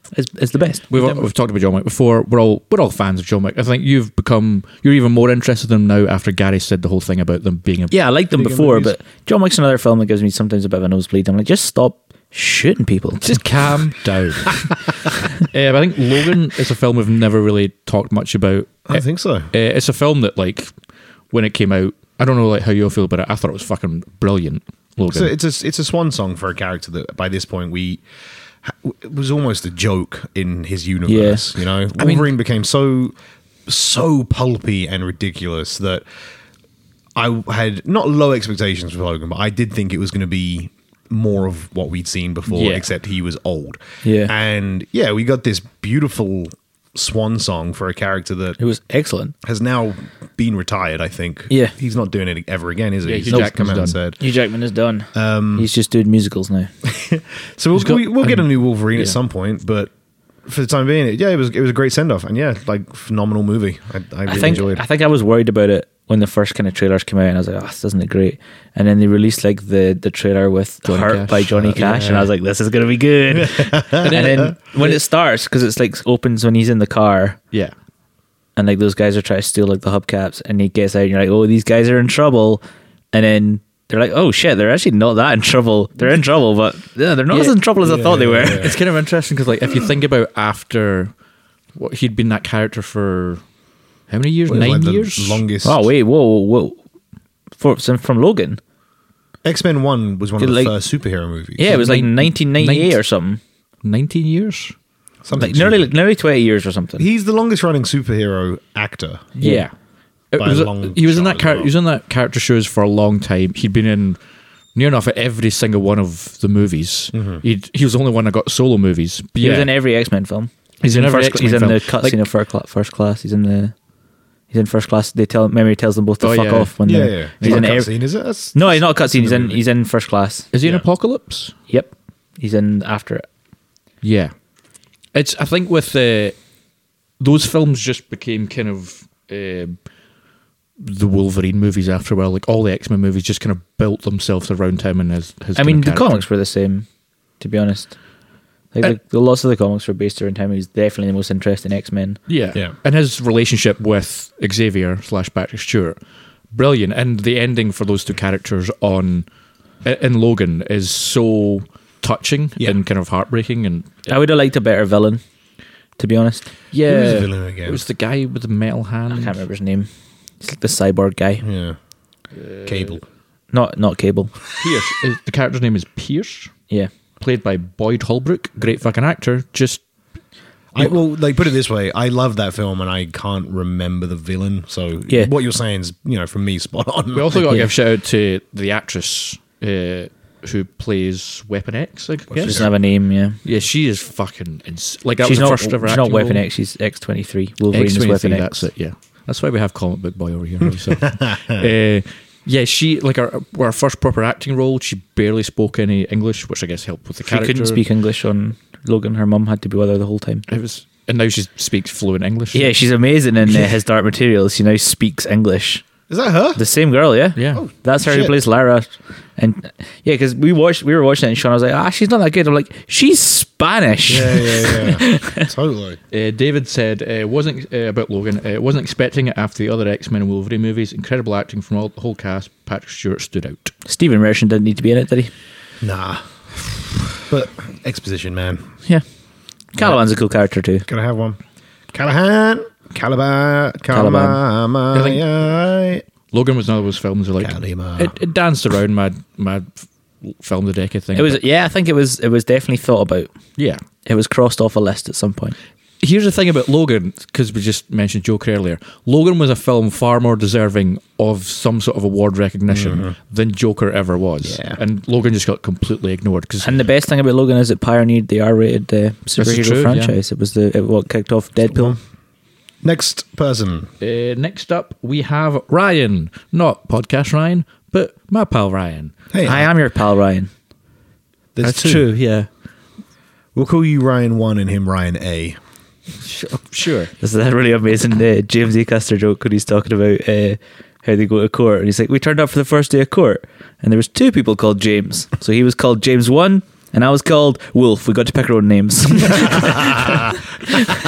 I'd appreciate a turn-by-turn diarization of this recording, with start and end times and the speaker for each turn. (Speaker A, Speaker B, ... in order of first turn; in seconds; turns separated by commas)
Speaker A: 0.1-1.2, Speaker B: 0.9-8.1, Speaker A: 7.9-13.4, Speaker C: 8.4-8.9, Speaker B: 13.2-20.7, Speaker C: 18.9-19.5, Speaker B: 21.3-25.3, Speaker C: 25.1-28.0, Speaker C: 28.6-33.1, Speaker A: 31.1-31.4, Speaker B: 32.0-32.3, Speaker C: 33.7-36.0, Speaker C: 37.2-48.6, Speaker B: 42.5-42.9, Speaker A: 44.0-44.3, Speaker A: 48.6-49.3, Speaker C: 49.4-54.2, Speaker B: 53.0-54.0, Speaker A: 54.2-56.7, Speaker C: 55.1-55.7, Speaker C: 56.8-59.9, Speaker B: 57.8-59.1, Speaker C: 60.5-64.8, Speaker A: 64.3-77.4, Speaker B: 70.8-72.0, Speaker C: 71.6-72.3, Speaker C: 73.3-74.5, Speaker B: 74.0-75.0, Speaker A: 78.6-82.6, Speaker A: 83.1-88.7, Speaker B: 87.3-87.6, Speaker C: 87.8-88.8, Speaker B: 88.6-91.1, Speaker B: 91.8-93.4, Speaker B: 94.1-95.4, Speaker C: 94.5-95.9, Speaker A: 95.6-96.8, Speaker A: 97.6-98.6, Speaker C: 99.5-101.7, Speaker A: 100.4-100.7, Speaker A: 101.6-103.4, Speaker B: 101.6-103.0, Speaker B: 103.8-104.8, Speaker C: 105.2-105.9, Speaker A: 105.3-107.1, Speaker C: 107.0-109.3, Speaker B: 109.4-109.7, Speaker A: 109.4-109.7, Speaker B: 110.3-114.2, Speaker C: 110.4-111.7, Speaker B: 114.8-119.7, Speaker C: 117.1-117.4, Speaker A: 119.4-123.7, Speaker B: 120.8-122.2, Speaker A: 124.5-127.9, Speaker B: 126.2-126.7, Speaker C: 126.8-129.6, Speaker B: 127.4-127.7, Speaker A: 128.5-130.5, Speaker B: 130.5-131.6, Speaker A: 131.7-133.3, Speaker B: 134.0-134.3, Speaker B: 135.1-136.3, Speaker B: 137.2-139.8, Speaker B: 140.8-146.2, Speaker A: 145.6-146.9, Speaker A: 147.4-148.0, Speaker A: 148.7-152.2, Speaker B: 152.3-156.0, Speaker B: 156.5-159.3, Speaker B: 159.8-164.1, Speaker A: 164.1-165.2, Speaker A: 166.0-166.4, Speaker B: 166.7-169.4, Speaker C: 166.9-167.8, Speaker A: 169.1-169.9, Speaker A: 170.4-171.4, Speaker C: 171.4-171.8, Speaker B: 172.3-173.0, Speaker C: 172.7-173.0, Speaker A: 173.5-174.3, Speaker B: 174.6-176.5, Speaker B: 177.2-179.8, Speaker C: 180.7-187.4, Speaker B: 187.1-192.7, Speaker A: 187.4-187.7, Speaker C: 192.3-192.7, Speaker A: 192.4-193.4, Speaker B: 193.4-196.4, Speaker A: 195.2-198.6, Speaker B: 197.7-207.8, Speaker C: 201.0-201.7, Speaker A: 207.2-210.4, Speaker B: 210.5-212.7, Speaker A: 212.5-215.8, Speaker C: 216.1-216.6, Speaker A: 216.6-225.5, Speaker B: 217.4-217.6, Speaker C: 217.6-218.4, Speaker C: 224.1-226.0, Speaker B: 226.1-233.7, Speaker A: 233.9-235.3, Speaker C: 235.8-236.2, Speaker C: 237.3-238.7, Speaker A: 239.7-240.9, Speaker C: 240.9-241.4, Speaker C: 241.9-246.0, Speaker A: 243.9-244.4, Speaker B: 244.9-245.2, Speaker B: 246.3-251.4, Speaker C: 247.4-248.2, Speaker A: 251.2-253.3, Speaker A: 254.1-255.6, Speaker B: 256.0-266.8, Speaker C: 262.7-263.1, Speaker C: 264.4-264.8, Speaker A: 266.6-272.0, Speaker B: 269.4-270.2, Speaker C: 271.7-272.0, Speaker C: 272.8-273.9, Speaker B: 274.0-279.1, Speaker C: 279.3-279.7, Speaker A: 279.4-280.5, Speaker C: 281.6-282.1, Speaker B: 281.6-282.5, Speaker C: 283.6-285.6, Speaker B: 286.2-287.1, Speaker A: 287.2-300.9, Speaker C: 299.8-300.2